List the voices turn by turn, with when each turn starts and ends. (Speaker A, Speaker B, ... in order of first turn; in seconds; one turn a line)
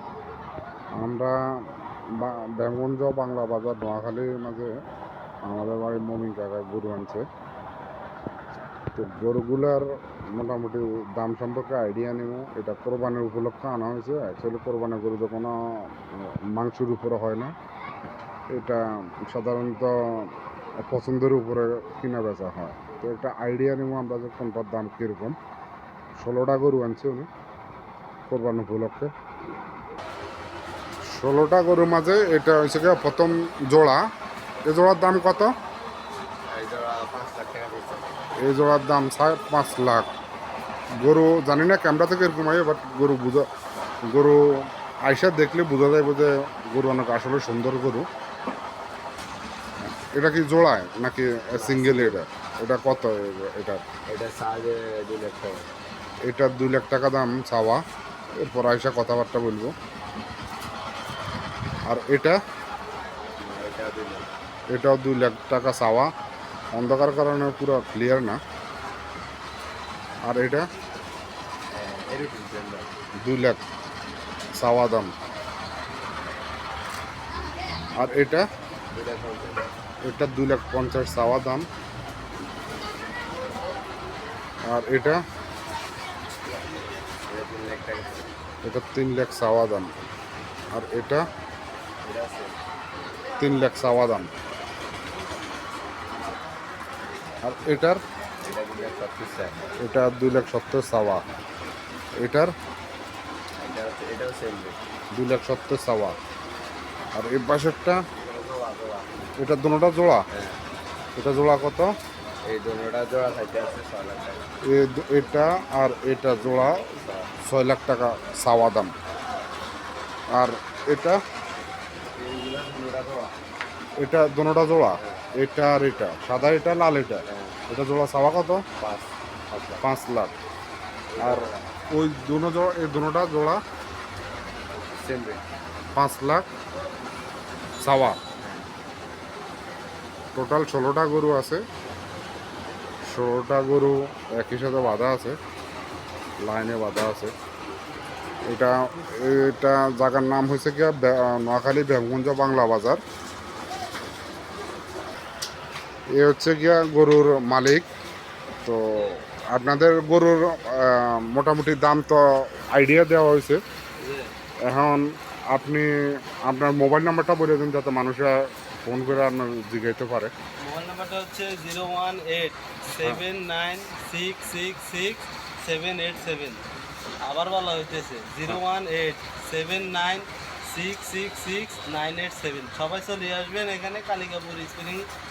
Speaker A: 1.0-1.4
Speaker A: 2.2-4.7
Speaker A: 5.5-7.2
Speaker A: 8.9-17.5
Speaker A: 18.5-20.3
Speaker A: 20.9-25.4
Speaker A: 26.2-27.3
Speaker A: 28.3-29.1
Speaker A: 31.1-34.0
Speaker A: 34.7-35.5
Speaker B: 36.5-38.2
Speaker A: 38.4-40.1
Speaker A: 41.0-43.5
Speaker A: 44.1-44.4
Speaker A: 45.0-48.1
Speaker A: 50.1-53.8
Speaker B: 51.5-52.2
Speaker B: 54.1-55.7
Speaker A: 56.3-57.8
Speaker A: 58.4-59.7
Speaker A: 61.9-62.4
Speaker B: 63.4-64.3
Speaker A: 64.7-66.1
Speaker A: 66.8-68.4
Speaker A: 70.3-70.7
Speaker B: 71.7-72.9
Speaker A: 73.2-73.6
Speaker A: 74.6-75.1
Speaker A: 78.0-78.5
Speaker B: 78.9-79.7
Speaker A: 80.0-81.7
Speaker A: 84.7-85.2
Speaker B: 87.3-88.3
Speaker A: 88.6-89.9
Speaker A: 90.7-91.2
Speaker B: 92.0-92.6
Speaker A: 93.4-94.3
Speaker A: 97.4-98.0
Speaker B: 98.4-99.7
Speaker A: 99.8-101.2
Speaker A: 102.2-102.5
Speaker B: 103.6-104.8
Speaker A: 105.2-106.2
Speaker A: 107.2-108.0
Speaker B: 108.2-109.1
Speaker A: 109.4-110.2
Speaker B: 110.3-110.6
Speaker A: 111.2-111.9
Speaker B: 112.5-114.4
Speaker A: 114.7-116.8
Speaker B: 116.7-117.3
Speaker A: 117.4-118.9
Speaker A: 120.3-121.2
Speaker B: 122.2-123.3
Speaker A: 124.0-128.6
Speaker B: 125.0-125.2
Speaker B: 127.3-127.6
Speaker B: 128.8-129.7
Speaker A: 129.7-130.3
Speaker B: 131.1-131.7
Speaker A: 131.2-133.6
Speaker B: 134.9-135.4
Speaker A: 135.9-136.4
Speaker A: 137.8-138.2
Speaker A: 140.3-141.6
Speaker A: 143.1-145.4
Speaker A: 146.4-147.3
Speaker A: 148.5-153.0
Speaker A: 156.2-157.9
Speaker A: 158.6-163.6
Speaker C: 158.9-159.3
Speaker C: 164.0-164.3
Speaker A: 164.7-165.9
Speaker A: 166.4-170.3
Speaker C: 170.6-176.6
Speaker C: 177.2-185.1